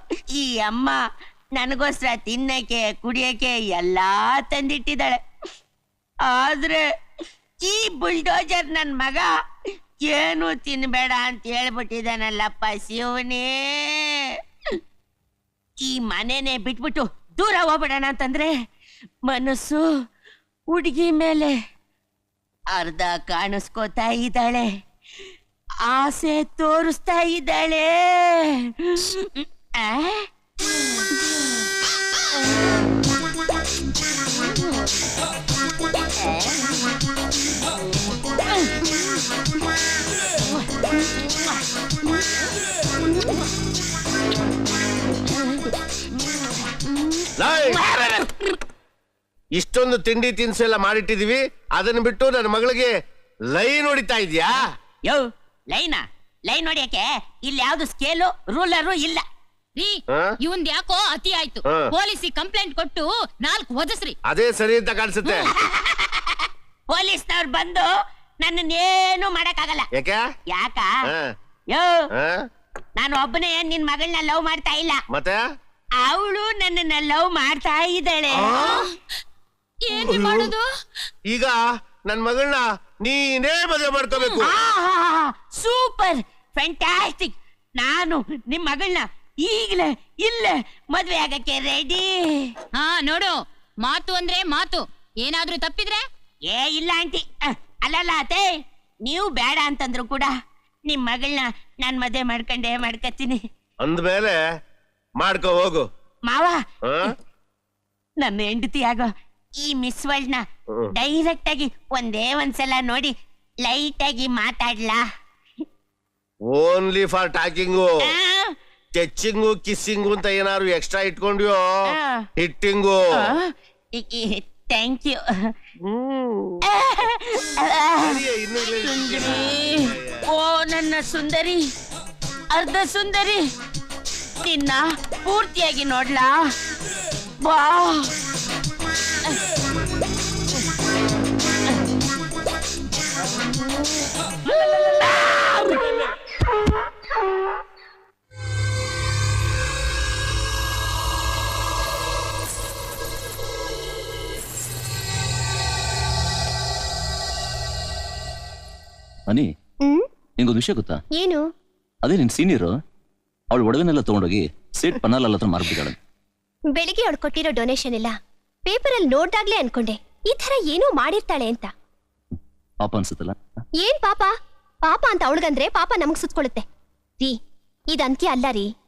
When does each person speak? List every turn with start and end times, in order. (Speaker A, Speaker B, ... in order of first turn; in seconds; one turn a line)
Speaker A: 0.3-1.0
Speaker A: 1.6-5.2
Speaker A: 6.2-6.8
Speaker A: 7.6-9.3
Speaker A: 10.1-14.2
Speaker A: 15.8-18.5
Speaker A: 19.3-19.8
Speaker A: 20.7-21.5
Speaker A: 22.7-24.7
Speaker A: 25.8-30.3
Speaker A: 41.3-41.5
Speaker A: 45.3-45.7
Speaker A: 46.2-48.4
Speaker B: 47.4-47.8
Speaker B: 49.5-52.9
Speaker B: 53.5-54.6
Speaker A: 55.0-59.2
Speaker C: 59.8-64.1
Speaker B: 60.1-60.4
Speaker B: 61.6-61.9
Speaker B: 64.3-65.5
Speaker A: 65.2-67.9
Speaker A: 68.4-69.9
Speaker B: 69.9-70.2
Speaker A: 70.5-70.9
Speaker A: 71.7-72.0
Speaker B: 72.2-72.4
Speaker A: 73.0-75.0
Speaker B: 75.1-75.4
Speaker A: 76.0-78.9
Speaker B: 78.4-78.7
Speaker B: 80.0-80.5
Speaker C: 80.0-80.4
Speaker B: 81.3-84.5
Speaker A: 84.4-92.5
Speaker C: 92.7-96.0
Speaker A: 96.5-98.5
Speaker A: 99.0-100.3
Speaker A: 100.9-103.4
Speaker B: 103.8-104.4
Speaker B: 105.2-105.9
Speaker A: 106.3-107.1
Speaker B: 106.8-107.1
Speaker A: 108.2-110.4
Speaker A: 111.0-113.1
Speaker A: 113.6-115.0
Speaker B: 116.5-118.1
Speaker A: 118.0-118.5
Speaker B: 118.9-123.1
Speaker A: 121.9-122.2
Speaker A: 123.1-125.5
Speaker B: 125.8-126.6
Speaker A: 126.7-131.6
Speaker B: 128.0-130.2
Speaker A: 132.5-133.4
Speaker A: 134.4-136.4
Speaker A: 137.4-138.1
Speaker A: 144.4-146.0
Speaker D: 160.4-161.0
Speaker D: 162.0-162.8
Speaker D: 163.5-165.9
Speaker E: 166.8-168.1
Speaker E: 168.7-171.7
Speaker D: 172.8-173.3
Speaker E: 173.8-174.3
Speaker E: 174.9-176.6
Speaker E: 177.9-178.7